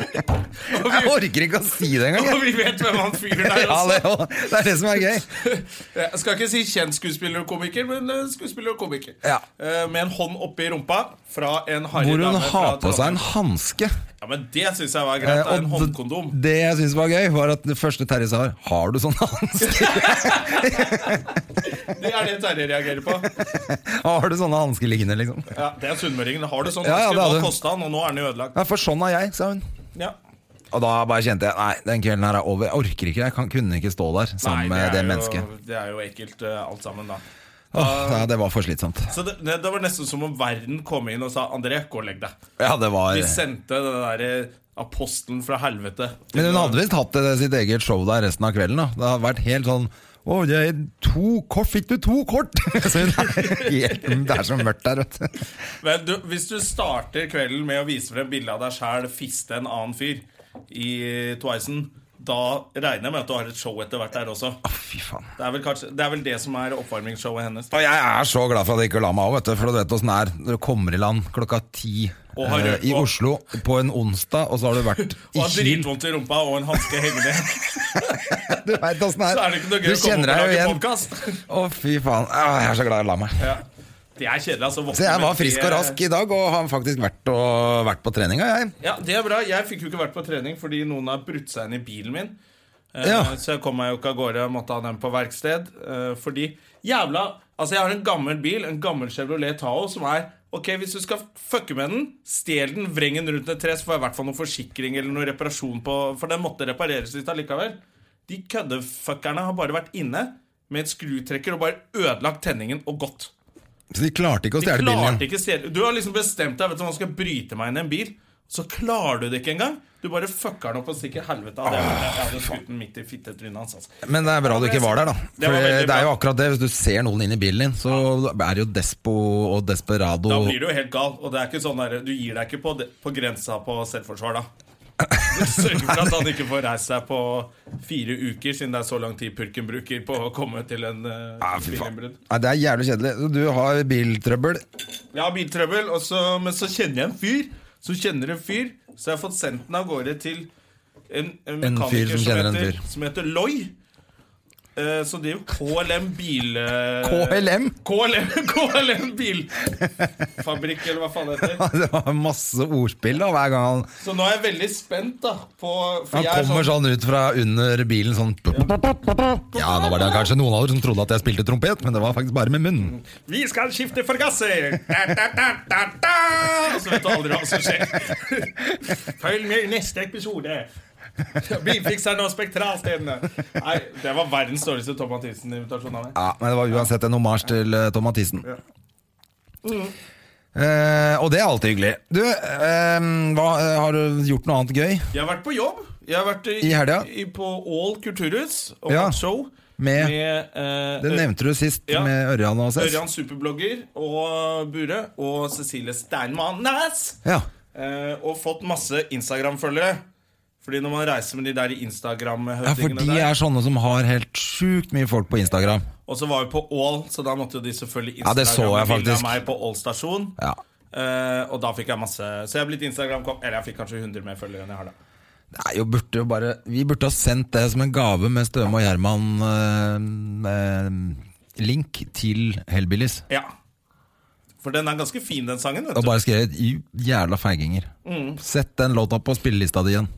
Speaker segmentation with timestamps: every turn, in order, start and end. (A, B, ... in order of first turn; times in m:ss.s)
0:00.6-0:01.2 A
0:00.7-0:02.4 B
0:02.0-0:04.1 A
0:03.3-0:05.3 B
0:05.2-0:13.2 A
0:11.9-0:13.9 B
0:14.2-0:16.4 A
0:15.2-0:21.3 B
0:19.6-0:23.4 A
0:23.4-0:25.5 B
0:25.5-0:28.6 A
0:26.8-0:27.5 B
0:28.6-0:29.6 B
0:30.7-0:35.5 B
0:34.4-0:37.2 A
0:37.7-0:39.1 B
0:37.7-0:38.3 A
0:39.1-0:42.4 A
0:42.6-0:43.4 B
0:43.1-0:46.8 A
0:46.3-0:55.3 B
0:53.0-0:54.4 A
0:55.8-1:04.6 A
1:04.6-1:05.3 B
1:05.4-1:07.7 A
1:07.7-1:15.9 B
1:12.4-1:13.1 A
1:15.0-1:18.6 A
1:18.5-1:20.8 B
1:19.2-1:21.4 A
1:21.5-1:23.4 B
1:24.2-1:26.0 A
1:24.9-1:28.7 B
1:28.8-1:32.4 A
1:32.9-1:53.3 A
1:33.0-1:33.4 B
1:53.9-1:55.2 B
1:54.6-2:06.1 A
2:01.7-2:02.4 B
2:04.0-2:10.6 B
2:10.3-2:14.5 A
2:15.1-2:16.1 B
2:15.2-2:22.2 A
2:21.4-2:24.6 B
2:25.1-2:30.5 A
2:31.1-2:33.7 A
2:31.6-2:32.8 B
2:34.8-2:39.8 A
2:37.0-2:37.8 B
2:40.4-2:41.6 A
2:41.4-2:43.9 B
2:44.0-2:46.7 A
2:46.1-2:53.0 B
2:49.8-2:50.2 A
2:52.9-3:00.7 A
3:01.4-3:06.2 A
3:06.2-3:08.5 B
3:09.6-3:09.9 A
3:10.6-3:15.1 B
3:15.1-3:21.3 A
3:16.6-3:17.1 B
3:18.9-3:19.2 B
3:19.8-3:20.2 B
3:21.0-3:23.0 B
3:21.9-3:22.1 A
3:22.8-3:27.2 A
3:27.7-3:30.0 A
3:30.6-3:33.3 A
3:32.6-3:35.8 B
3:36.1-3:40.4 A
3:38.2-3:39.4 B
3:40.9-3:44.9 A
3:45.5-3:53.2 B
3:54.6-3:56.2 A
3:56.0-4:00.1 B
3:58.0-3:58.4 A